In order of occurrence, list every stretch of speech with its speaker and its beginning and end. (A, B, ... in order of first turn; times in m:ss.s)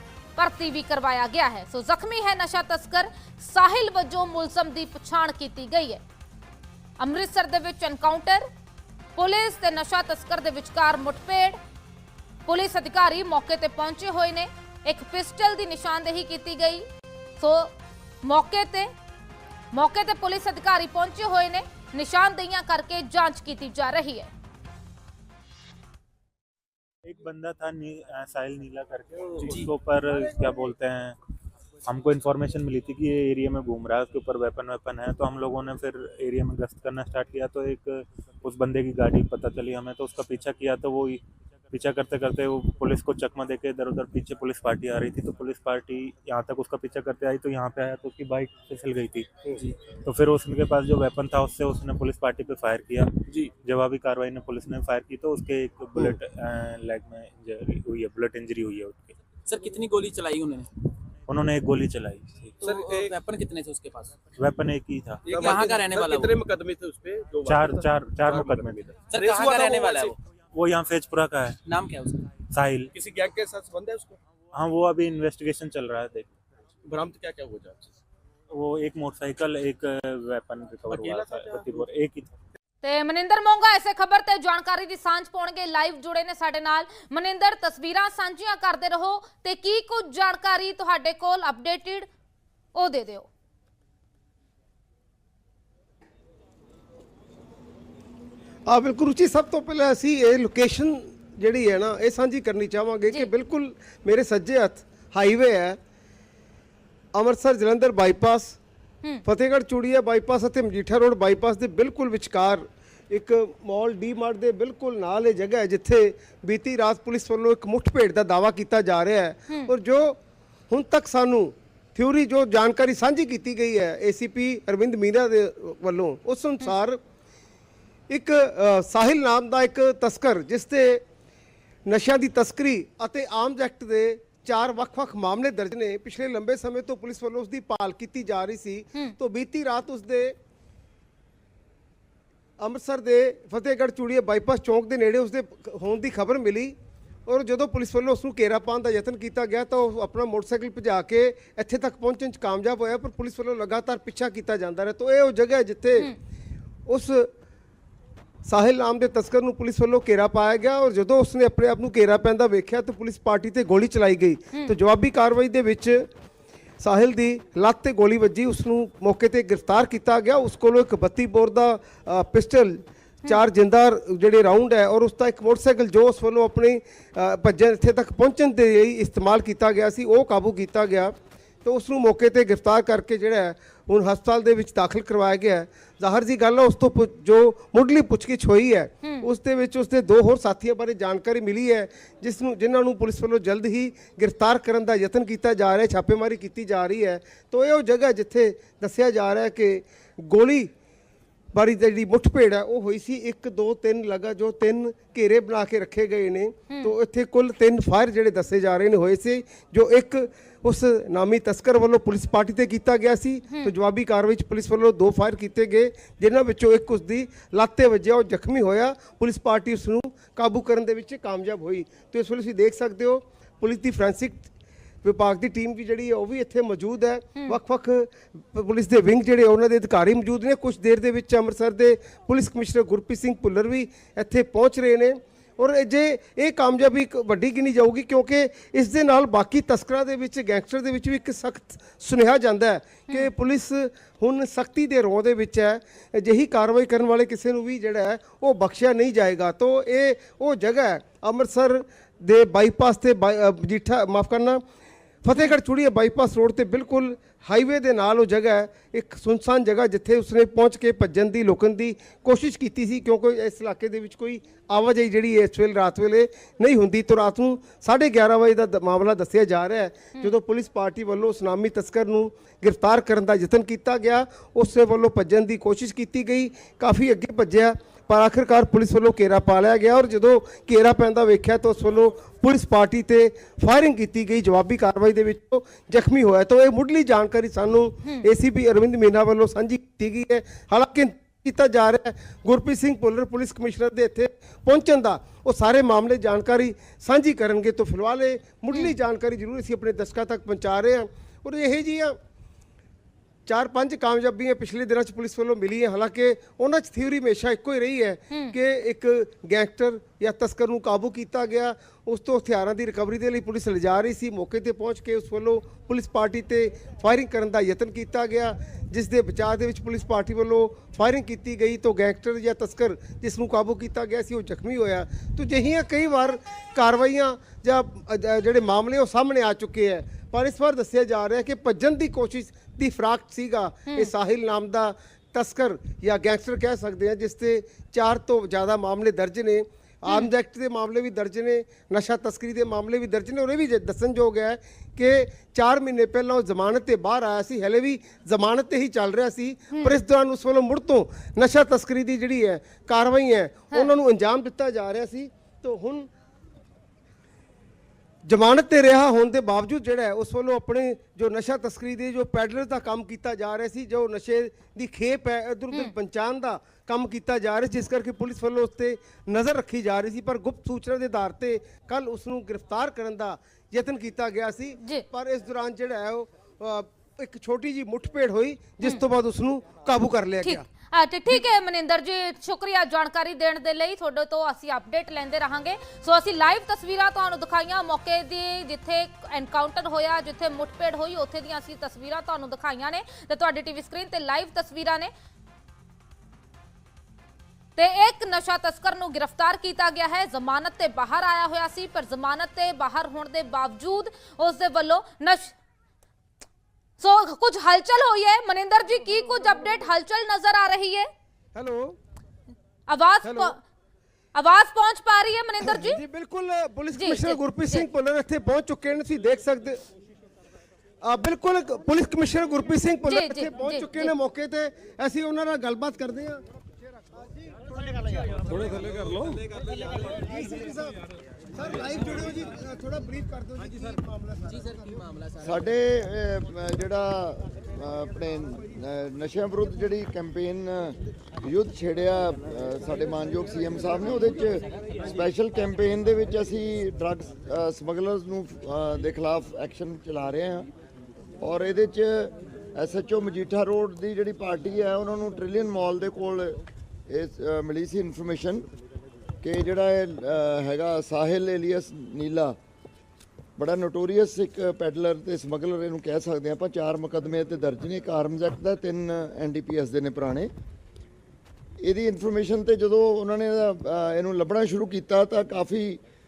0:00.4-0:06.0 A
0:07.0-0:08.5 A
0:09.2-0:11.6 A
0:12.5-0:16.8 A
0:17.4-0:18.9 A
0:19.7-0:24.3 A
0:27.0-0:31.2 B
0:29.4-0:29.7 C
0:31.8-0:49.3 B
0:49.9-0:53.1 B
0:53.6-0:59.2 B
0:59.4-1:00.7 C
1:01.3-1:02.7 B
1:02.6-1:03.2 D
1:02.6-1:04.2 C
1:04.3-1:05.4 B
1:05.2-1:10.1 D
1:05.3-1:06.4 C
1:07.4-1:09.6 B
1:09.1-1:10.2 C
1:10.5-1:11.6 B
1:11.6-1:12.4 C
1:12.4-1:12.9 B
1:12.9-1:14.2 D
1:14.5-1:16.3 B
1:16.8-1:17.9 D
1:18.5-1:22.3 B
1:20.9-1:21.8 D
1:22.8-1:32.1 A
1:32.7-1:33.3 A
1:38.7-1:45.8 E
1:47.1-1:48.6 E
1:49.2-2:00.2 E
2:00.7-2:07.0 E
2:08.1-2:11.0 E
2:11.8-2:20.3 E
2:22.6-2:26.7 E
2:27.3-2:36.1 E
2:36.9-2:37.3 E
2:38.4-2:46.1 E
2:46.8-3:20.7 E
3:21.5-3:44.5 E
3:45.0-4:14.6 E
4:15.2-5:02.2 E
5:03.4-5:56.1 E
5:58.2-6:20.6 E
6:20.4-6:35.1 A
6:37.8-6:45.5 A
6:47.0-6:51.1 A
6:51.5-6:52.0 E
6:52.9-6:53.6 A
6:53.2-6:53.5 E
6:54.3-6:56.0 A
6:55.6-6:59.8 E
6:56.9-6:57.8 A
7:01.0-7:06.4 E
7:03.1-7:04.1 A
7:08.4-7:09.0 E
7:09.6-7:11.0 E
7:11.5-7:14.8 E
7:14.4-7:15.5 C
7:15.4-7:30.7 F
7:31.4-7:38.6 F
7:39.4-7:42.6 F
7:43.6-7:50.5 F
7:51.8-7:56.0 F